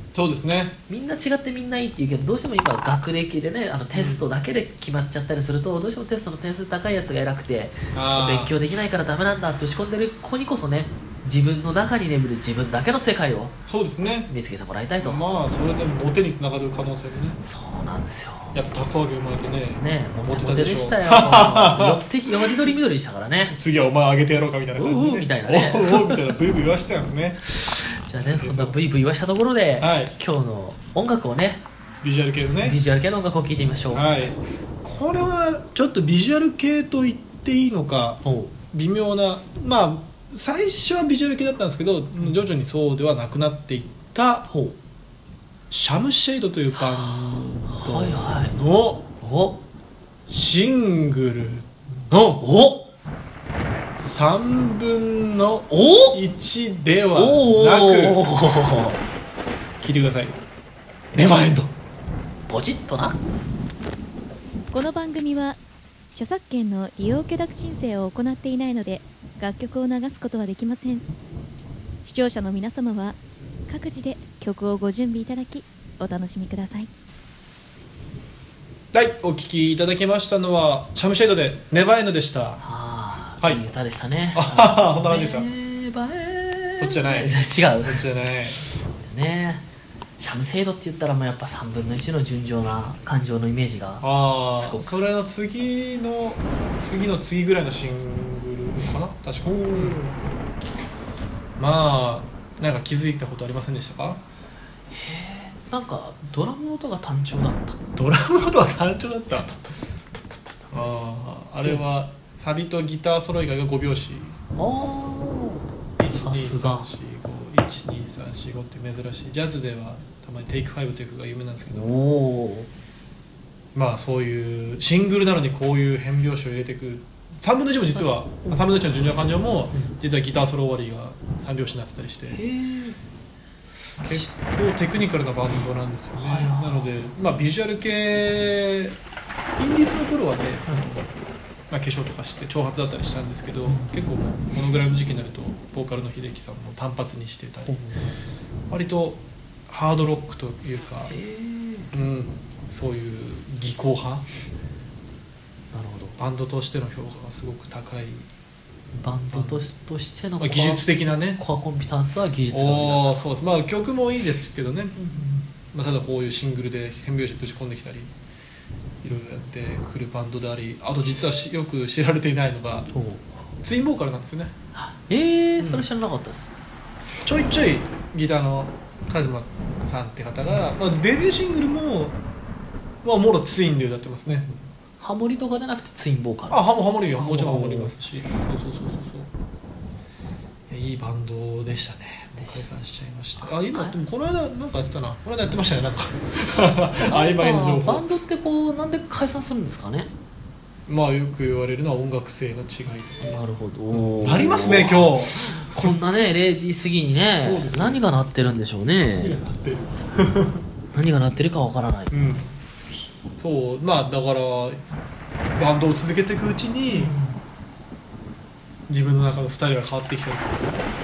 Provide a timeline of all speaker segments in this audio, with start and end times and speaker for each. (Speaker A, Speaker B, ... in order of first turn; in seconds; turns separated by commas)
Speaker A: 0.1-0.8, Speaker B: 0.9-13.6, Speaker A: 3.9-4.2, Speaker A: 7.9-8.5, Speaker A: 13.7-14.3, Speaker B: 14.3-15.2, Speaker A: 15.0-17.4, Speaker B: 17.4-18.6, Speaker A: 18.5-22.7, Speaker B: 19.8-23.5, Speaker A: 23.5-27.4, Speaker B: 24.8-26.2, Speaker B: 27.5-31.6, Speaker A: 28.2-28.8, Speaker A: 29.8-30.1, Speaker A: 32.0-32.8, Speaker B: 32.6-34.0, Speaker A: 33.9-44.5, Speaker B: 38.2-38.5, Speaker B: 44.5-44.8, Speaker A: 45.7-49.1, Speaker B: 46.8-48.6, Speaker B: 49.2-49.6, Speaker A: 50.3-52.4, Speaker B: 52.4-52.9, Speaker A: 54.0-58.2, Speaker B: 55.7-56.2, Speaker B: 57.1-59.0, Speaker A: 59.8-60.4, Speaker A: 61.1-61.7, Speaker B: 62.5-63.2, Speaker C: 64.7-65.6, Speaker C: 66.1-71.1, Speaker C: 72.0-76.9, Speaker A: 78.9-82.6, Speaker B: 82.6-88.0, Speaker A: 84.3-85.5, Speaker A: 86.8-88.7, Speaker B: 89.0-89.6, Speaker B: 90.2-94.9, Speaker A: 94.0-100.1, Speaker B: 99.5-100.2, Speaker A: 101.6-104.2, Speaker B: 104.9-107.8, Speaker A: 108.0-109.5, Speaker B: 109.3-110.9, Speaker A: 110.7-114.4, Speaker B: 114.6-116.9, Speaker A: 116.0-121.9, Speaker B: 121.7-122.7, Speaker A: 123.7-132.4, Speaker B: 128.0-128.6, Speaker B: 132.3-133.0, Speaker A: 134.0-139.0, Speaker B: 134.0-134.3, Speaker B: 136.2-136.9, Speaker A: 139.6-147.8, Speaker B: 143.7-144.1, Speaker B: 147.7-148.1, Speaker A: 148.7-151.1, Speaker B: 151.1-151.9, Speaker A: 151.9-154.3, Speaker B: 155.7-156.2, Speaker A: 156.2-158.3, Speaker B: 158.9-163.1, Speaker A: 159.3-159.6, Speaker A: 160.4-161.4, Speaker A: 162.5-168.1, Speaker B: 165.1-165.4, Speaker A: 169.0-172.9, Speaker B: 172.9-173.4, Speaker A: 173.6-174.6, Speaker B: 174.8-176.5, Speaker A: 175.6-175.9, Speaker A: 177.2-182.2, Speaker A: 183.0-184.7, Speaker B: 185.0-186.6, Speaker A: 186.5-189.3, Speaker B: 187.2-187.9, Speaker A: 190.7-198.1, Speaker B: 193.4-194.0, Speaker B: 197.0-200.1, Speaker A: 200.9-203.4, Speaker B: 203.2-209.4, Speaker A: 203.9-205.9, Speaker A: 207.4-208.0, Speaker A: 209.2-210.7, Speaker B: 210.9-212.4, Speaker A: 212.1-212.5, Speaker A: 213.3-214.8, Speaker A: 215.6-217.1, Speaker B: 216.9-217.4, Speaker A: 218.9-220.8